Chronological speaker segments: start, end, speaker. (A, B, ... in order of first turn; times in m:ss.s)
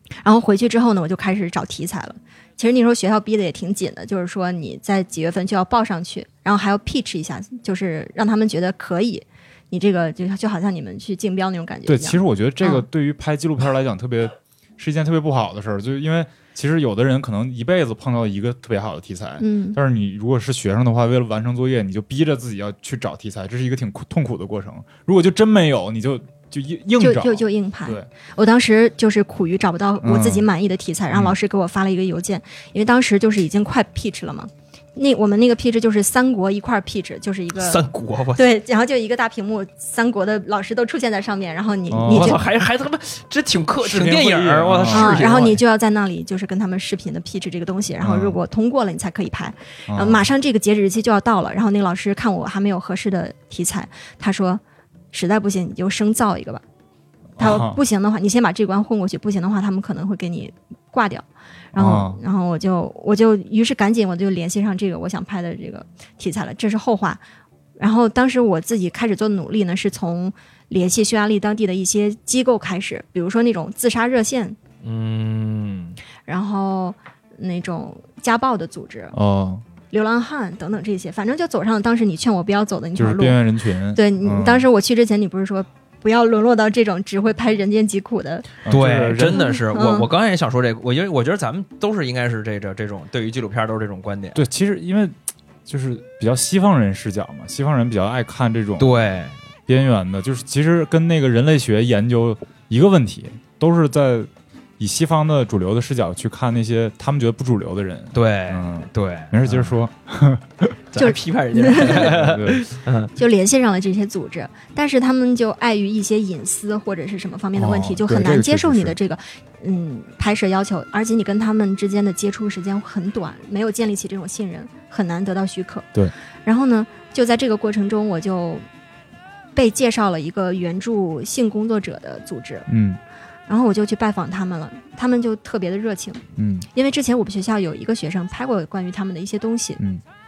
0:00.2-0:12.8 A
0:11.8-0:28.1 B
0:19.4-0:19.8 A
0:27.0-0:37.8 A
0:30.0-0:30.5 B
0:37.5-0:38.5 C
0:38.4-0:42.4 A
0:41.9-0:42.4 B
0:42.1-0:45.6 C
0:43.8-0:45.6 B
0:44.9-0:54.6 A
0:48.0-0:48.4 B
0:49.9-0:50.3 B
0:55.1-0:56.6 A
0:57.4-0:57.8 B
0:57.4-1:07.2 A
1:01.7-1:02.2 B
1:07.8-1:14.6 A
1:14.8-1:16.0 C
1:16.2-1:19.2 A
1:19.1-1:19.6 B
1:19.9-1:23.4 A
1:22.9-1:24.7 B
1:23.9-1:28.5 A
1:28.6-1:29.4 B
1:28.6-1:34.4 C
1:29.3-1:30.1 A
1:34.3-1:39.0 B
1:38.8-1:39.4 C
1:39.7-1:50.8 B
1:48.1-1:49.7 C
1:50.9-1:53.1 C
1:51.0-1:52.1 A
1:51.8-1:52.6 B
1:53.2-2:05.9 A
1:57.6-1:59.0 B
2:06.4-2:08.6 A
2:09.5-2:12.7 A
2:12.7-2:13.0 B
2:13.5-2:19.8 A
2:16.4-2:16.7 B